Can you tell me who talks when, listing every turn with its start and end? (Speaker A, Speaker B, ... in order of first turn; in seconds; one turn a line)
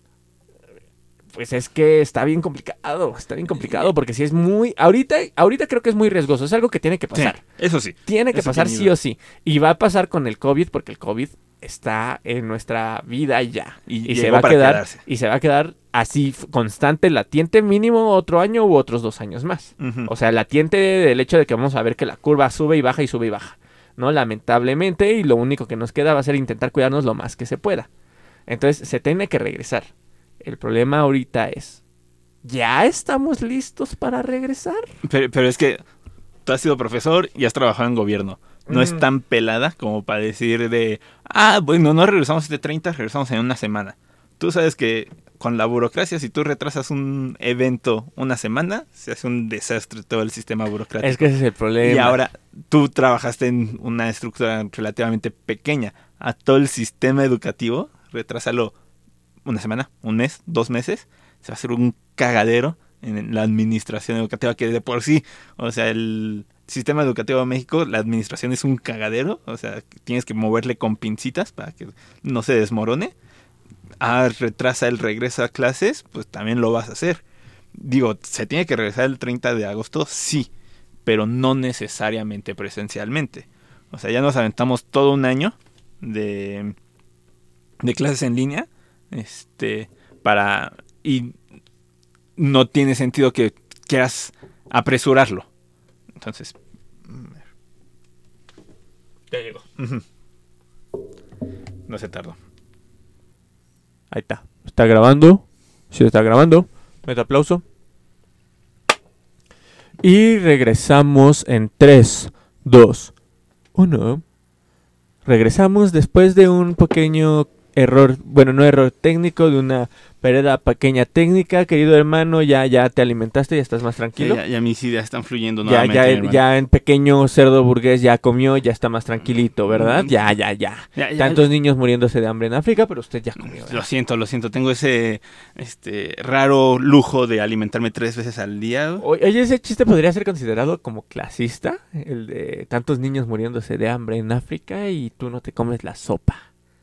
Speaker A: 1.3-7.4
Speaker B: 7.1-8.9
Speaker A: 8.1-27.9
Speaker B: 13.9-15.0
Speaker B: 19.8-20.1
Speaker A: 28.5-29.9
Speaker A: 30.4-31.8
Speaker A: 32.4-34.9
Speaker B: 35.0-35.8
Speaker B: 36.4-51.3
Speaker A: 38.7-39.0
Speaker A: 51.0-52.2
Speaker B: 51.8-58.7
Speaker B: 59.4-73.1
Speaker B: 74.0-77.2
Speaker B: 77.7-80.5
Speaker B: 81.0-86.7
Speaker B: 87.8-91.3
Speaker B: 92.3-95.5
Speaker B: 96.1-96.5
Speaker B: 97.1-97.4
Speaker A: 99.3-99.6
Speaker B: 99.8-100.0
Speaker B: 101.9-102.4
Speaker A: 104.1-107.6
Speaker A: 110.0-113.1
Speaker A: 113.7-114.2
Speaker A: 115.2-124.4
Speaker B: 124.2-126.4
Speaker A: 125.6-133.8
Speaker B: 129.7-130.1
Speaker B: 130.9-131.4
Speaker B: 133.4-139.0
Speaker A: 139.0-146.4